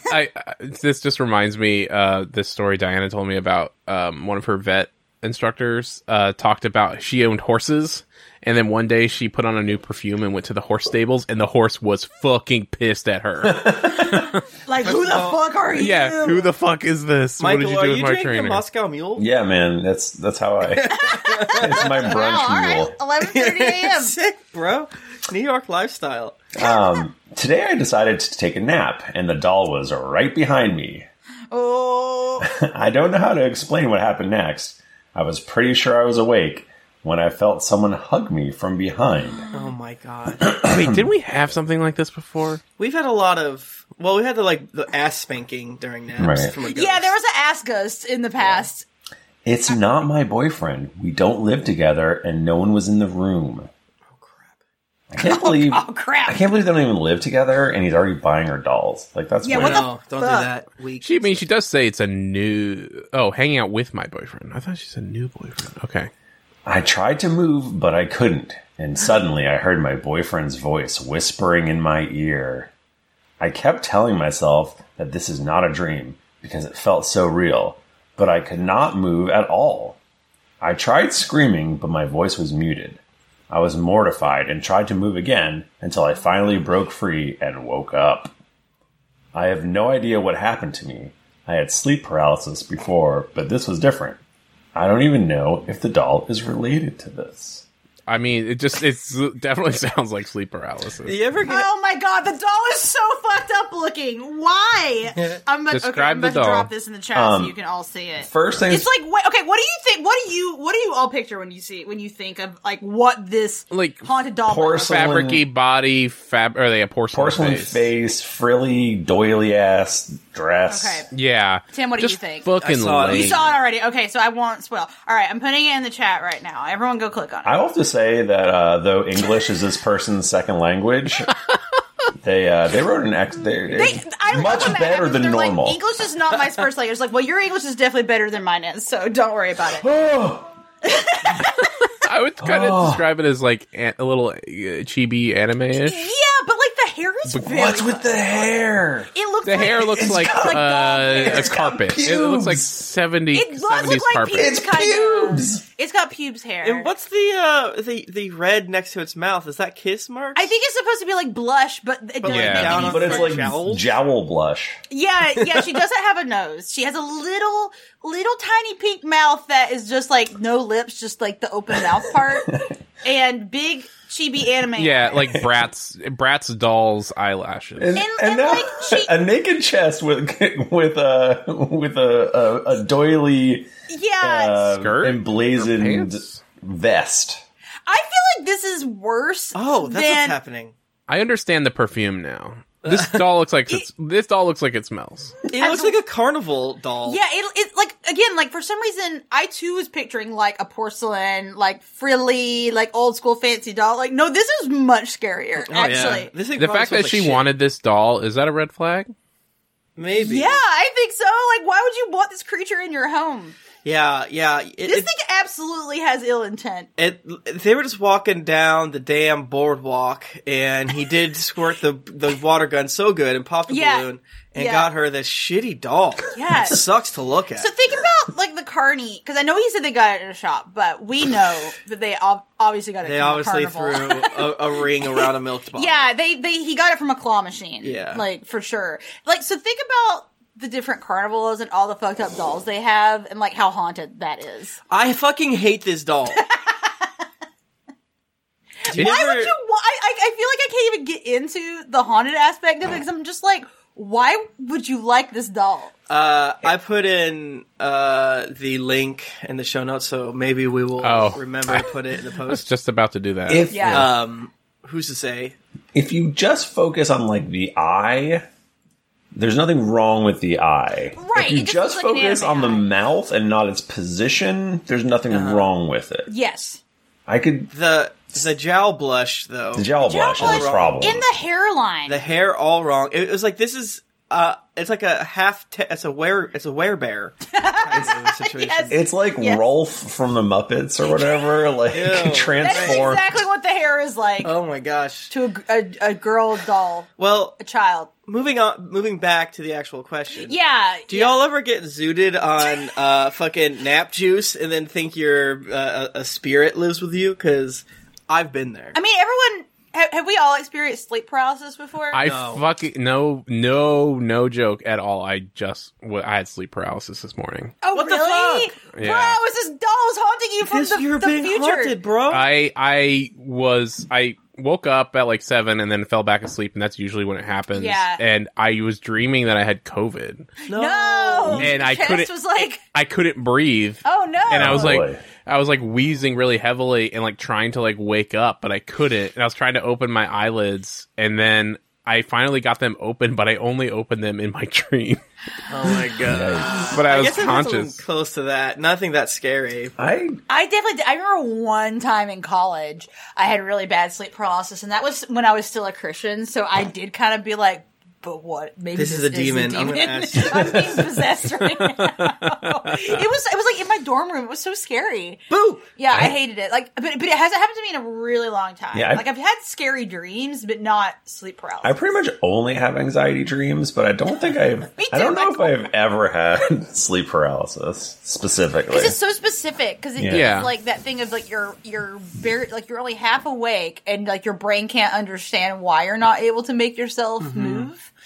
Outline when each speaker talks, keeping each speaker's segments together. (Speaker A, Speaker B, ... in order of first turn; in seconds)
Speaker A: 0.1-14.4, 15.8-18.6, 40.6-42.6, 61.0-66.1, 98.1-101.2, 105.7-106.7, 113.7-114.1, 114.9-117.9, 121.1-123.5, 141.6-146.1, 149.4-154.5, 162.3-162.9, 174.8-178.0, 184.8-186.4, 191.1-195.4, 205.9-209.1, 261.0-263.9, 312.1-317.8, 318.9-319.4, 322.3-330.5, 331.6-332.3, 332.9-345.2, 346.9-348.0, 380.3-380.7
Speaker B: 13.4-14.3, 19.2-23.0, 26.5-31.1, 32.4-39.4, 46.2-46.5, 49.4-53.7, 55.1-59.9, 66.7-72.7, 73.4-80.0, 80.6-88.3, 89.3-94.2, 94.8-97.6, 107.1-107.5, 108.2-108.9, 114.5-115.5, 117.1-121.1, 127.4-131.3, 132.2-135.8, 139.6-140.5, 142.4-143.0, 147.4-149.1, 149.8-152.7, 154.3-155.6, 162.7-164.8, 177.8-183.7, 184.2-187.4, 263.5-264.1, 265.9-268.4, 269.4-276.3, 277.3-277.7, 279.7-281.2, 288.9-293.3, 334.5-335.2, 346.2-347.1, 350.0-350.4, 368.9-369.2, 371.8-379.2, 380.1-380.6
Speaker C: 14.6-16.5, 21.0-24.1, 26.6-27.0, 31.5-32.5, 39.2-39.7, 46.7-48.8, 55.2-56.5, 59.4-60.5, 101.4-115.2, 120.7-121.1, 121.7-122.5, 123.1-127.6, 133.7-139.9, 140.8-141.7, 145.7-151.8, 153.3-156.9, 160.3-163.4, 164.9-175.3, 177.9-179.1, 183.9-184.8, 187.9-190.4, 195.5-196.0, 197.0-206.3, 210.2-213.6, 214.8-216.9, 223.7-224.9, 226.3-226.8, 227.6-234.5, 235.2-244.8, 246.3-247.1, 248.9-255.9, 263.6-264.1, 271.1-273.0, 276.3-276.8, 280.0-282.2, 287.5-289.6, 291.0-291.6, 292.6-294.5, 295.3-298.1, 300.4-301.4, 308.9-312.2, 317.8-321.9, 327.7-328.2, 330.7-332.8, 334.0-335.0, 350.5-372.1, 374.9-375.9, 378.9-388.1
Speaker D: 14.8-15.4, 17.4-19.2, 20.6-22.1, 23.2-26.4, 39.5-40.5, 42.8-47.1, 48.4-48.7, 54.1-54.6, 59.6-61.4, 101.0-101.7, 105.2-105.4, 122.6-123.5, 156.6-160.5, 162.2-163.9, 189.5-190.7, 192.8-193.2, 195.5-197.2, 205.6-207.5, 209.9-210.6, 213.8-215.1, 217.0-227.7, 233.0-236.1, 237.8-238.2, 244.9-246.4, 248.9-249.5, 256.1-262.6, 263.9-265.6, 275.3-275.7, 277.7-281.0, 282.1-289.0, 291.9-293.1, 294.4-295.3, 297.2-297.6, 298.2-300.6, 301.1-309.0, 312.2-312.6, 317.9-318.7, 320.6-322.5, 330.7-331.7, 345.7-349.9, 358.9-361.0, 365.5-365.9, 387.4-387.9